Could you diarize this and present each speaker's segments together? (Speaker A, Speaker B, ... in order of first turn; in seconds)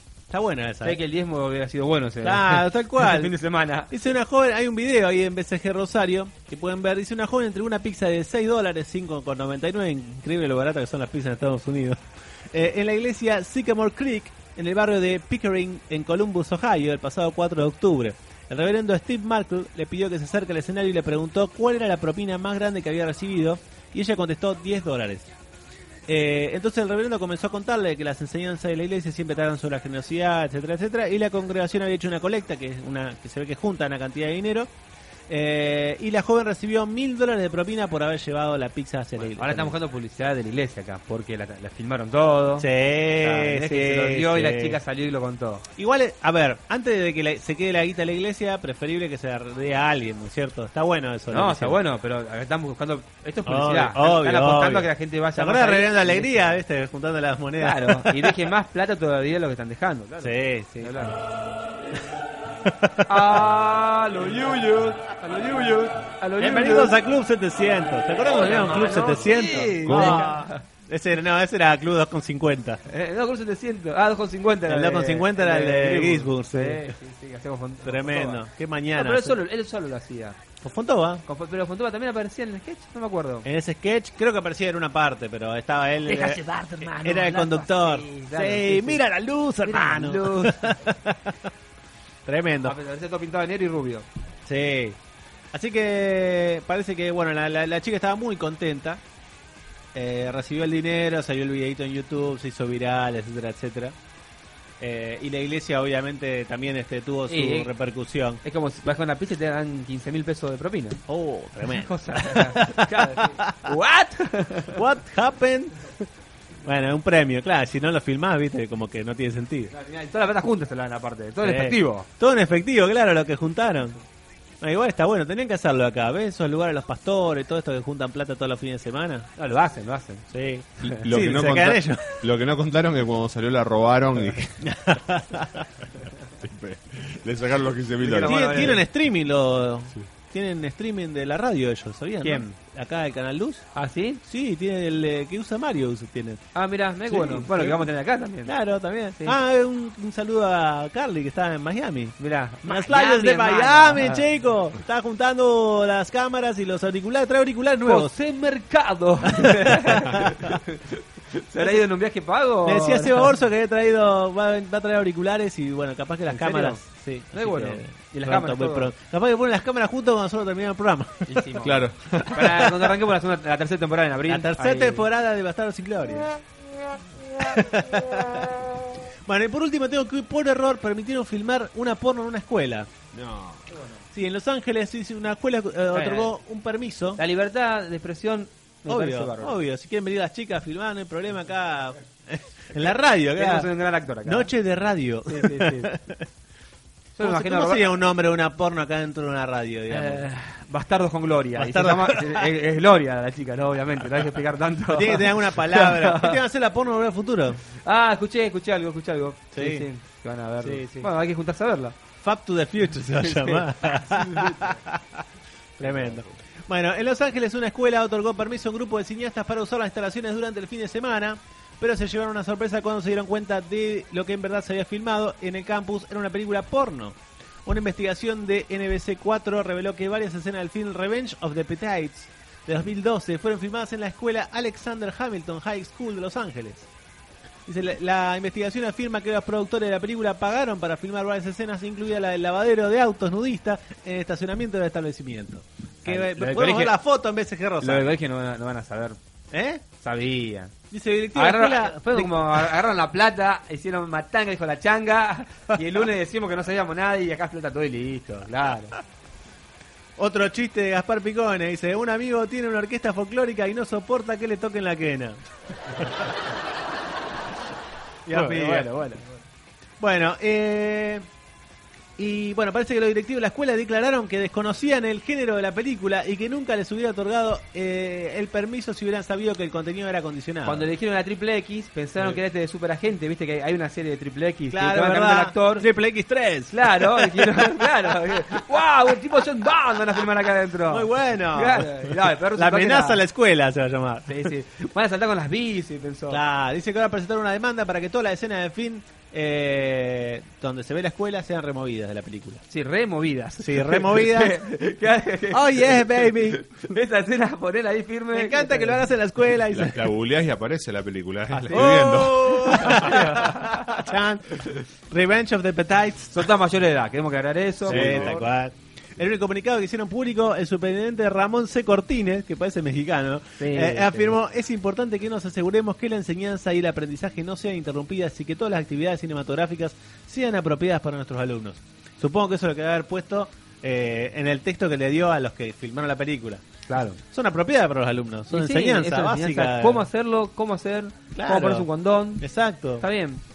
Speaker A: 0.3-1.0, 2.2-3.3, 3.9-12.0, 12.5-25.3, 26.1-34.7, 35.3-39.8, 42.6-44.8, 45.8-51.8, 53.5-58.3, 60.2-61.1, 62.7-63.4, 66.4-72.8, 74.7-76.9, 77.8-79.4, 80.6-81.2, 83.4-91.3, 92.2-92.8, 94.5-95.0, 95.5-99.0, 99.9-103.9, 104.8-108.4, 111.1-113.6, 114.7-115.7, 116.6-119.7, 121.4-124.0, 124.6-129.3, 130.3-132.2, 134.6-135.7, 138.2-143.7, 144.2-146.4, 147.1-147.9, 148.4-158.1, 159.4-160.4, 162.6-171.4, 174.3-176.3, 177.4-178.6, 179.3-182.9, 184.1-187.2, 188.9-193.7, 194.2-196.2, 197.2-200.3, 201.6-202.5, 204.9-207.6, 209.5-209.9, 210.6-211.1, 212.2-215.0, 215.8-236.9, 237.7-248.1, 249.5-249.8, 250.9-252.7, 260.2-265.4, 268.3-269.2, 270.0-271.2, 272.2-280.9, 284.7-287.9, 290.9-294.5, 296.3-302.6, 303.6-304.6, 305.5-306.9, 308.3-310.1, 311.5-314.5, 315.1-316.4, 317.8-336.6, 337.2-340.1, 341.3-341.9, 342.4-343.0
Speaker B: 0.8-3.9, 39.2-42.6, 43.2-45.6, 51.3-56.5, 57.6-61.2, 63.1-67.0, 68.2-70.6, 72.9-78.4, 78.9-80.4, 81.2-83.5, 86.1-89.0, 89.7-90.6, 92.6-94.0, 107.3-107.7, 108.4-111.0, 111.6-114.8, 119.7-122.0, 129.4-130.2, 138.0-138.8, 142.2-142.5, 143.7-144.2, 146.5-148.5, 152.2-154.2, 157.8-163.3, 166.3-166.8, 167.3-168.9, 171.2-175.0, 185.9-186.3, 187.2-189.6, 193.4-194.5, 195.3-195.9, 197.2-197.9, 199.9-206.4, 207.8-211.9, 213.2-214.7, 215.8-216.2, 246.1-246.9, 247.8-249.2, 250.0-250.7, 251.3-258.9, 268.3-269.2, 280.6-285.9, 286.7-293.2, 294.3-296.4, 302.7-309.0, 312.5-314.0, 316.3-318.5, 323.6-324.3, 336.9-337.2, 338.5-342.4, 343.0-343.4
Speaker C: 69.8-70.2, 131.0-134.6, 136.4-138.8, 171.6-172.5, 183.1-183.6, 309.7-313.2, 317.9-318.4